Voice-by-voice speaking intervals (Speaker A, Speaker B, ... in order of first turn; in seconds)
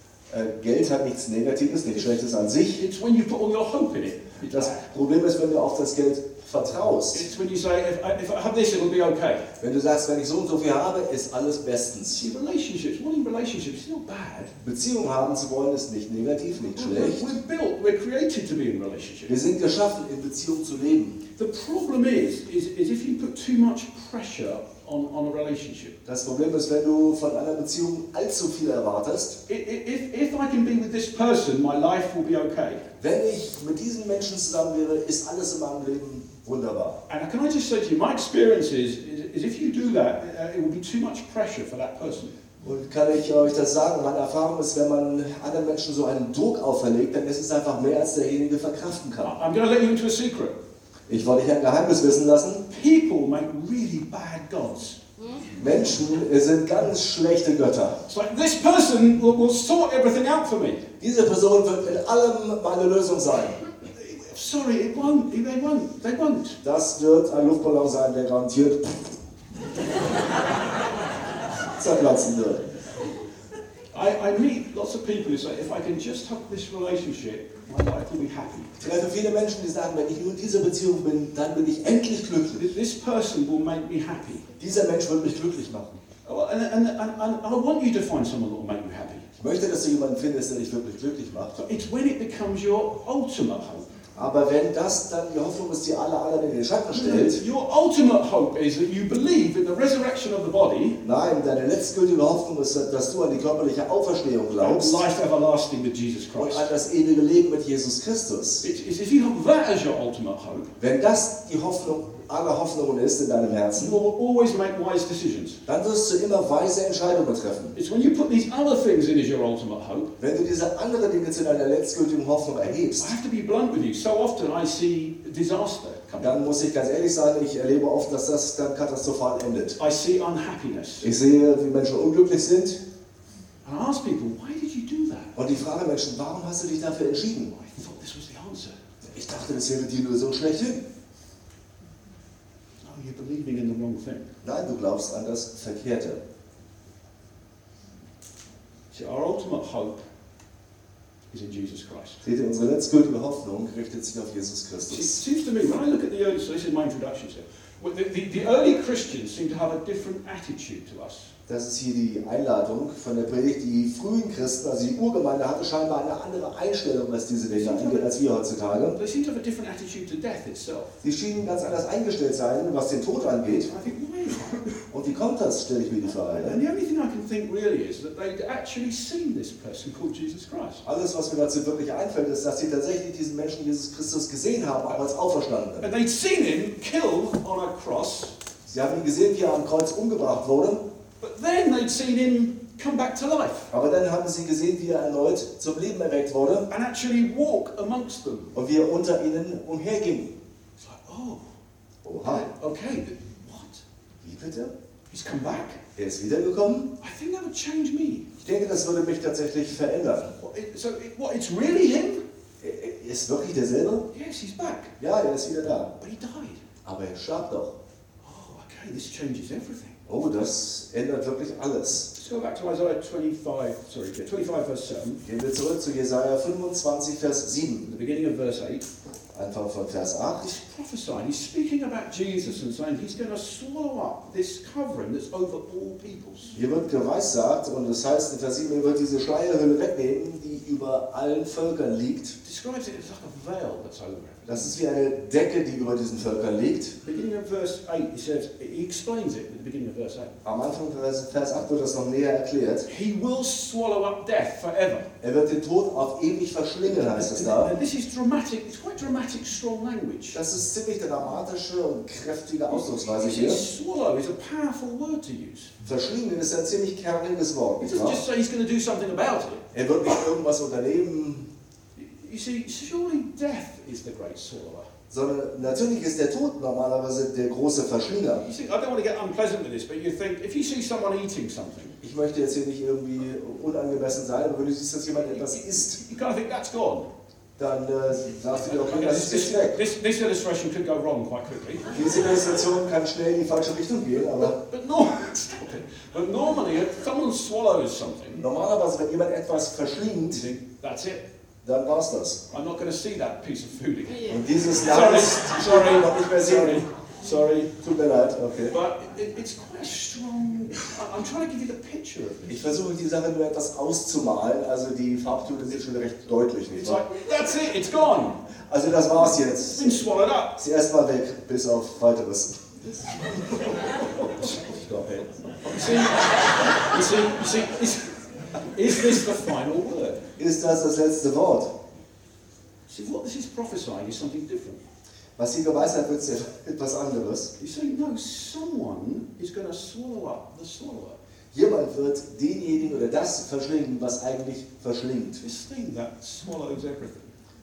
Speaker A: 0.3-2.8, 4.5-7.2, 9.6-12.3, 14.6-17.3, 19.3-21.2, 26.1-29.4, 33.0-37.0, 42.6-49.3, 51.1-52.6, 55.6-58.0, 61.0-63.6, 66.6-69.1, 71.8-72.7, 78.8-82.7, 84.6-86.0, 89.4-91.6, 94.2-97.4, 101.0-105.0, 106.3-108.7, 110.8-114.0, 115.7-117.8, 120.2-123.2, 126.2-129.8, 131.0-132.8, 135.4-137.5, 139.1-140.8, 144.4-146.2, 152.2-155.2, 161.5-169.0, 171.0-173.7, 174.9-176.6, 180.8-185.9, 188.7-190.8, 193.7-196.7, 198.5-200.3, 202.0-202.5, 204.2-204.7, 206.0-206.9, 208.4-210.3, 212.6-214.1, 215.0-215.9, 216.8-217.8, 220.1-222.1, 225.2-227.9, 229.3-230.5, 236.6-242.4, 244.5-247.0, 250.4-252.9, 255.2-257.7, 260.3-263.6, 265.9-268.2, 269.7-271.5, 275.1-278.4, 282.0-286.0, 287.6-289.8, 291.9-294.6, 298.4-300.5, 301.6-302.4, 304.3-306.8, 307.7-308.7, 312.5-317.0, 318.7-320.0, 320.6-323.7, 330.4-331.7, 335.4-337.5, 341.5-345.4
Speaker B: 2.7-4.9, 7.1-9.5, 12.1-14.6, 16.8-19.3, 21.4-26.0, 29.5-32.9, 37.1-42.4, 49.2-50.6, 52.7-55.0, 58.1-60.9, 64.0-66.6, 73.9-78.7, 82.6-84.5, 86.2-89.3, 91.5-93.9, 96.9-101.0, 104.6-106.7, 108.6-110.7, 113.8-115.6, 117.7-120.2, 122.8-126.4, 129.8-131.1, 133.6-135.4, 137.5-138.8, 142.8-144.3, 148.9-150.0, 151.3-152.2, 154.9-161.3, 167.5-168.1, 169.0-171.0, 173.6-174.8, 176.3-180.8, 185.8-188.3, 191.2-193.7, 196.7-198.6, 200.8-201.4, 202.2-203.8, 205.1-205.8, 207.0-208.3, 210.4-212.2, 214.1-214.9, 216.0-216.6, 218.2-220.0, 222.1-225.2, 227.9-228.9, 230.4-236.6, 242.4-244.8, 247.0-250.4, 252.9-255.1, 256.9-260.4, 262.7-265.8, 267.8-269.6, 272.0-274.9, 278.4-282.0, 285.6-287.1, 288.6-292.0, 294.4-298.4, 300.3-301.2, 302.5-307.7, 308.7-312.7, 316.7-318.4, 319.7-320.6, 324.2-330.3, 332.9-334.8, 337.6-341.2, 345.4-347.3